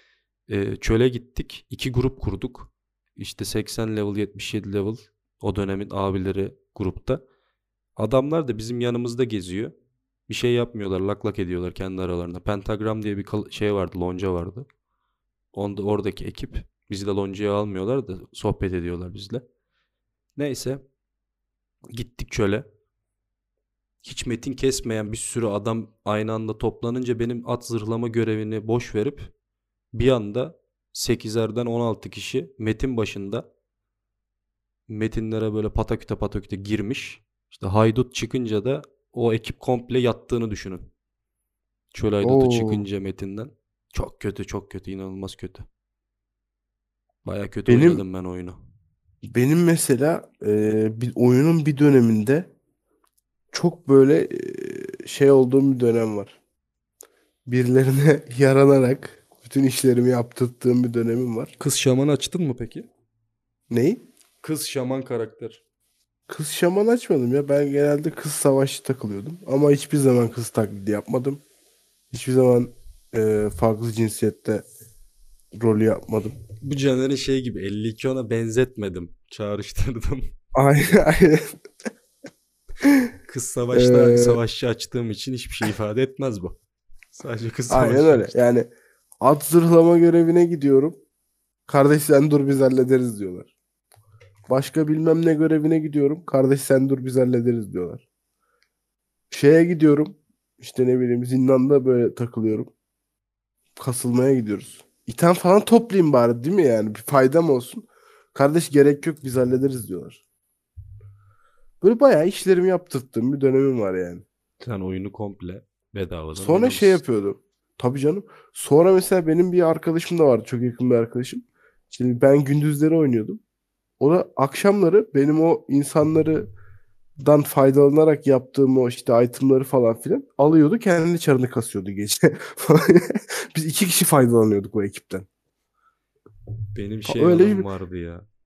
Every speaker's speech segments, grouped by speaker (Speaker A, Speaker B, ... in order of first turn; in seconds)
Speaker A: 0.5-7.2, 8.0-9.7, 10.3-14.7, 15.5-19.4, 20.4-20.8, 21.9-22.6, 24.0-29.3, 29.9-33.4, 34.9-40.9, 41.9-45.6, 47.2-48.6, 61.6-62.9, 64.4-65.6, 76.6-80.3, 83.3-86.5, 87.1-88.3, 114.6-117.0, 136.7-138.2
Speaker B: 42.2-42.9, 47.7-48.0, 49.2-52.5, 53.5-56.4, 57.5-61.5, 63.7-64.0, 66.3-71.4, 72.1-74.6, 75.5-76.3, 80.5-81.5, 82.8-83.1, 83.7-84.4, 87.7-88.7, 89.2-91.0, 91.7-93.5, 94.5-98.0, 99.3-102.7, 103.8-110.2, 111.8-114.2, 116.4-123.4, 124.0-126.5, 127.2-135.2, 137.1-137.7